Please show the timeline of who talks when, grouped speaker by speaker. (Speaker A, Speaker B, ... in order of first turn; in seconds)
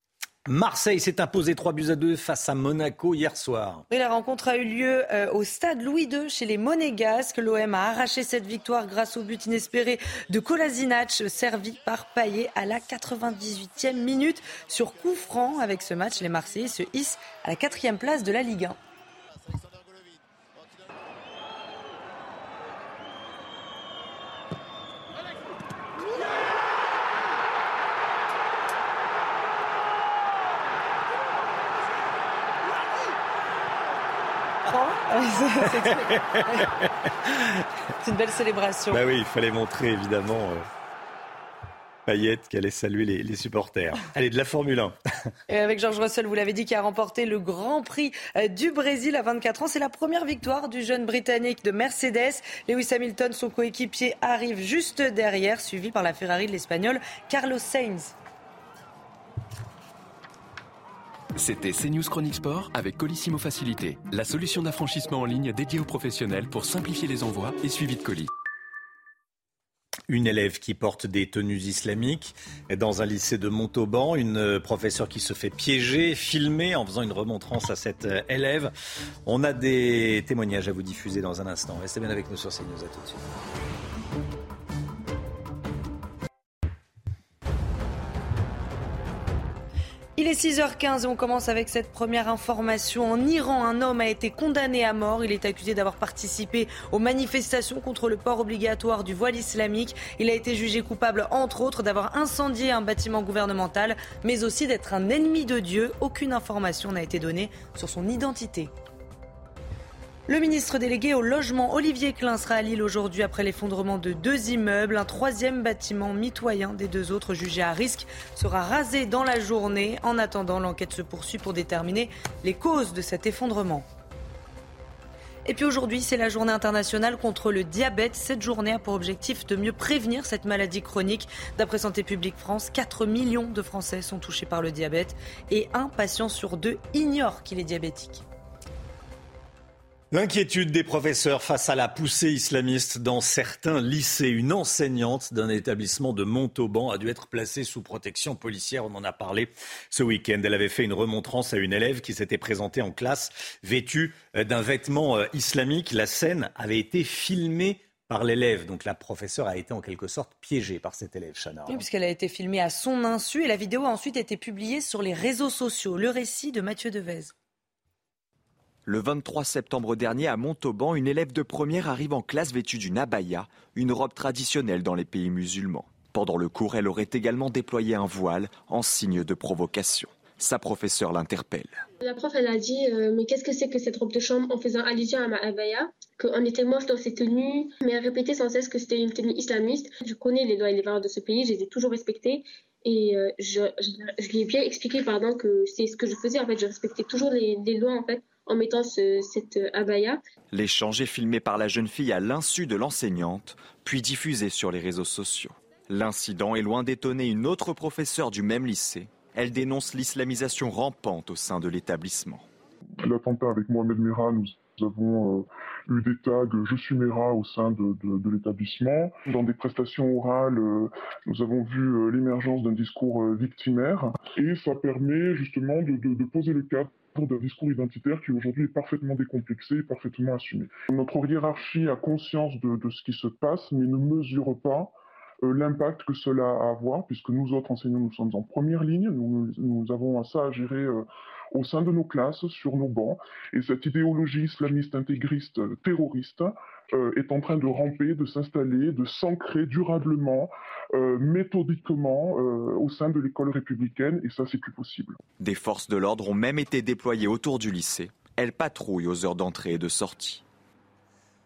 Speaker A: 0.5-3.9, 35.7-36.9, 38.9-40.6, 42.1-45.0, 70.1-78.7, 79.3-83.2, 140.1-161.8
Speaker B: 3.9-18.8, 34.7-36.7, 38.0-39.0, 45.5-58.1, 90.2-108.7, 110.3-123.8, 125.5-138.2, 161.7-167.3
Speaker C: 61.4-68.3
Speaker D: 168.9-181.8, 200.5-212.5, 255.4-260.4
Speaker E: 182.0-200.2
Speaker F: 213.0-234.9, 235.4-241.0, 241.6-255.2